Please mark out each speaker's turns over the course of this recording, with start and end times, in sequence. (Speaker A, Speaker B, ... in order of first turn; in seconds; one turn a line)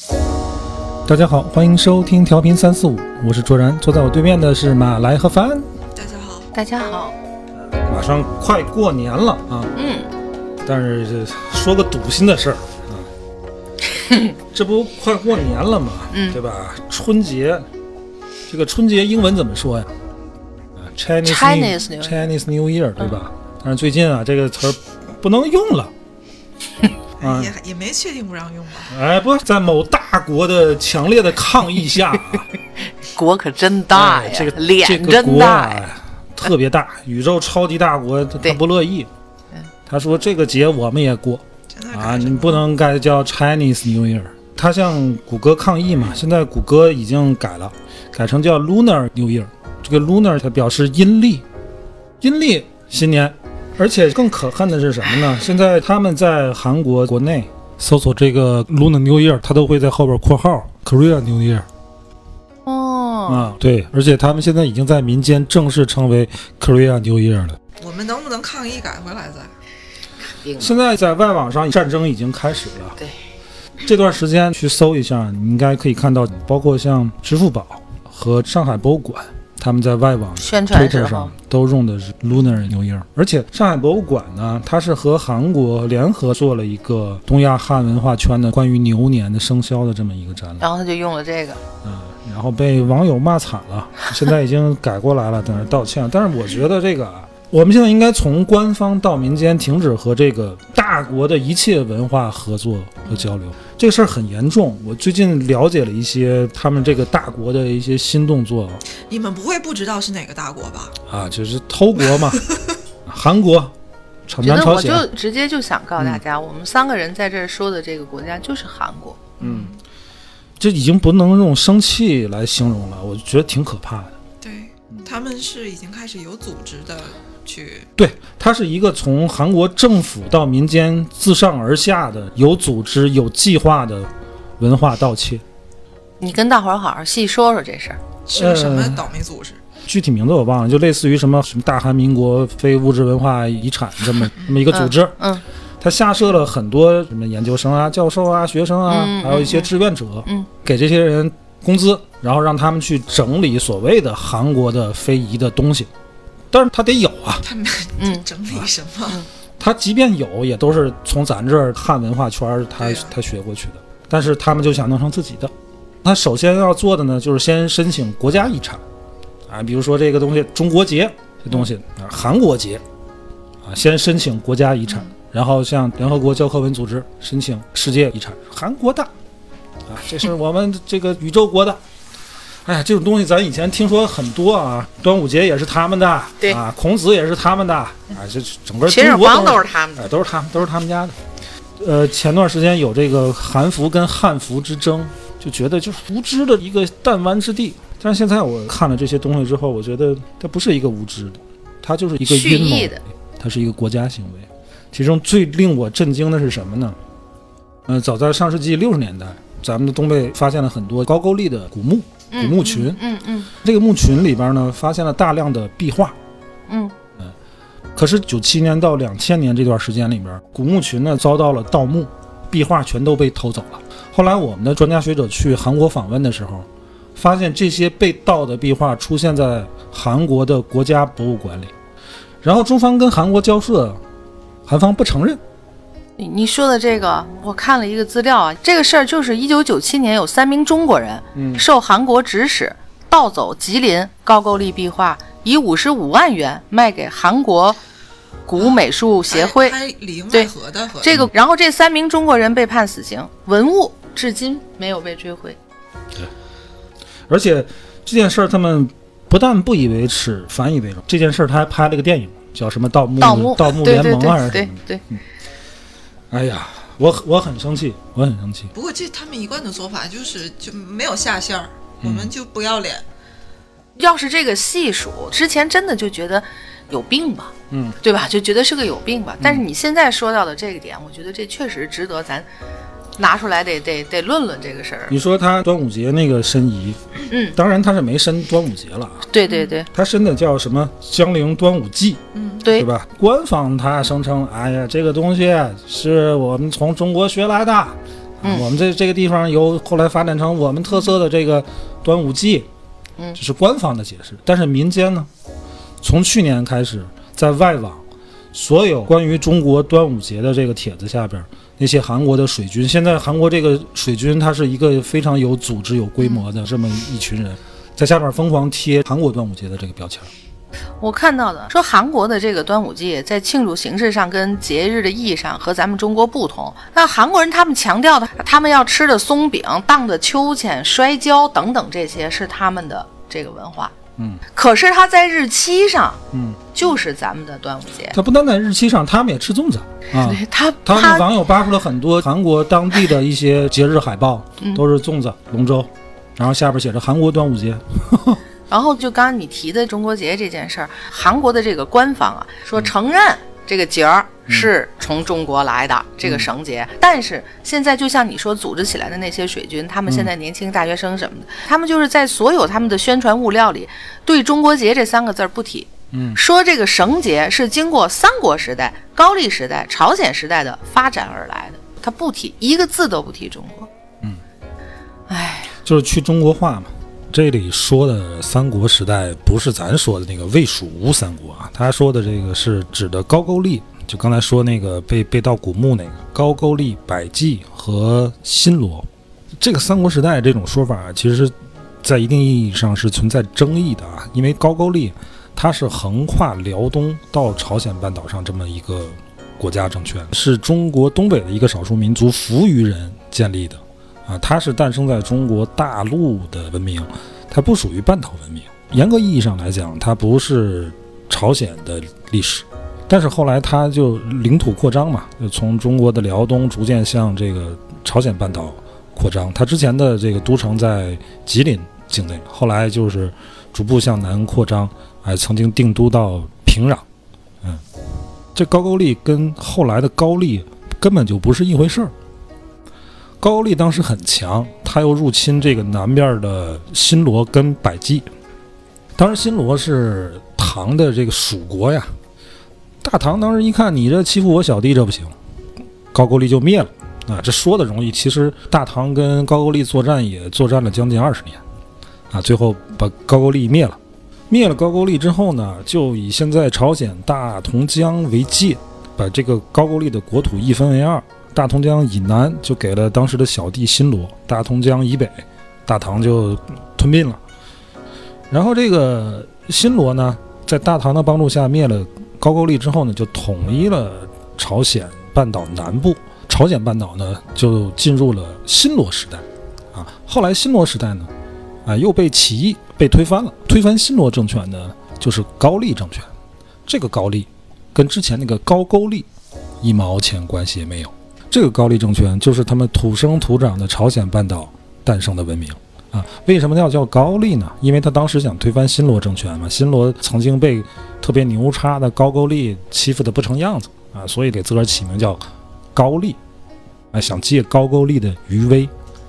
Speaker A: 1.1-5.7
Speaker B: 5.9-6.5
Speaker C: 6.5-7.2
Speaker A: 7.6-9.7
Speaker C: 9.7-10.1
Speaker A: 10.6-13.1
Speaker C: 14.0-14.3
Speaker A: 14.5-17.7
Speaker C: 16.1-16.4
Speaker A: 18.5-19.9
Speaker A: 20.8-25.9
Speaker C: 21.2-22.3
Speaker B: 27.2-28.9
Speaker A: 27.2-27.5
Speaker A: 28.9-32.4
Speaker C: 33.0-35.8
Speaker A: 33.9-39.1
Speaker A: 39.9-51.4
Speaker B: 41.7-42.6
Speaker A: 52.2-61.7
Speaker C: 62.6-63.5
Speaker A: 63.3-67.6
Speaker B: 67.8-69.5
Speaker C: 70.3-70.7
Speaker A: 70.6-73.0
Speaker A: 73.8-90.7
Speaker C: 80.4-81.3
Speaker C: 90.6-91.6
Speaker A: 91.8-108.8
Speaker B: 109.0-111.0
Speaker A: 111.1-112.4
Speaker A: 113.1-113.7
Speaker A: 114.3-115.1
Speaker C: 114.4-119.2
Speaker B: 119.4-119.8
Speaker A: 119.4-119.7
Speaker A: 120.6-124.1
Speaker B: 124.4-127.9
Speaker A: 128.0-135.4
Speaker C: 136.2-138.0
Speaker B: 138.3-139.6
Speaker A: 138.3-139.1
Speaker A: 139.8-145.2
Speaker B: 144.4-144.7
Speaker C: 144.7-145.4
Speaker A: 145.8-155.9
Speaker C: 148.9-149.7
Speaker A: 156.5-157.4
Speaker B: 157.4-159.2
Speaker C: 158.0-158.2
Speaker A: 159.6-168.8
Speaker B: 162.8-163.1
Speaker A: 169.5-172.8
Speaker A: 173.6-179.1
Speaker A: 179.9-181.8
Speaker A: 182.7-191.2
Speaker C: 188.9-190.1
Speaker A: 191.8-207.0
Speaker C: 202.3-203.0
Speaker A: 207.8-213.0
Speaker C: 212.3-213.5
Speaker A: 213.6-216.2
Speaker C: 216.7-216.9
Speaker A: 217.9-231.7
Speaker A: 232.4-234.0
Speaker A: 234.7-235.4
Speaker C: 236.2-247.8
Speaker A: 241.3-241.6
Speaker C: 248.5-249.7
Speaker B: 249.3-251.2
Speaker C: 250.3-255.6
Speaker A: 257.3-265.2
Speaker C: 263.2-265.0
Speaker A: 266.3-268.7
Speaker B: 268.7-273.0
Speaker A: 272.0-272.3
Speaker C: 273.9-282.5
Speaker A: 277.7-278.0
Speaker C: 283.2-285.2
Speaker A: 285.1-287.0
Speaker C: 287.3-287.6
Speaker A: 287.5-289.2
Speaker C: 289.3-289.9
Speaker B: 289.4-289.7
Speaker A: 289.9-302.7
Speaker B: 292.3-292.6
Speaker C: 292.6-292.9
Speaker A: 303.3-305.3
Speaker A: 306.0-308.0
Speaker A: 308.5-320.3
Speaker C: 321.0-333.9
Speaker A: 334.2-334.4
Speaker C: 334.5-336.2
Speaker A: 336.3-336.6
Speaker C: 336.7-338.2
Speaker A: 338.1-348.4
Speaker C: 340.2-341.3
Speaker C: 348.7-373.9
Speaker A: 356.2-356.5
Speaker A: 366.1-366.4
Speaker C: 375.3-375.7
Speaker A: 375.8-389.1
Speaker A: 389.6-427.0
Speaker A: 428.5-432.1
Speaker A: 433.4-438.3
Speaker A: 439.1-442.1
Speaker A: 443.0-445.3
Speaker A: 446.1-451.6
Speaker A: 452.3-454.0
Speaker A: 454.5-467.4
Speaker A: 468.5-481.3
Speaker A: 481.8-486.3
Speaker A: 486.9-489.3
Speaker A: 489.8-505.4
Speaker A: 505.9-506.4
Speaker A: 507.1-508.9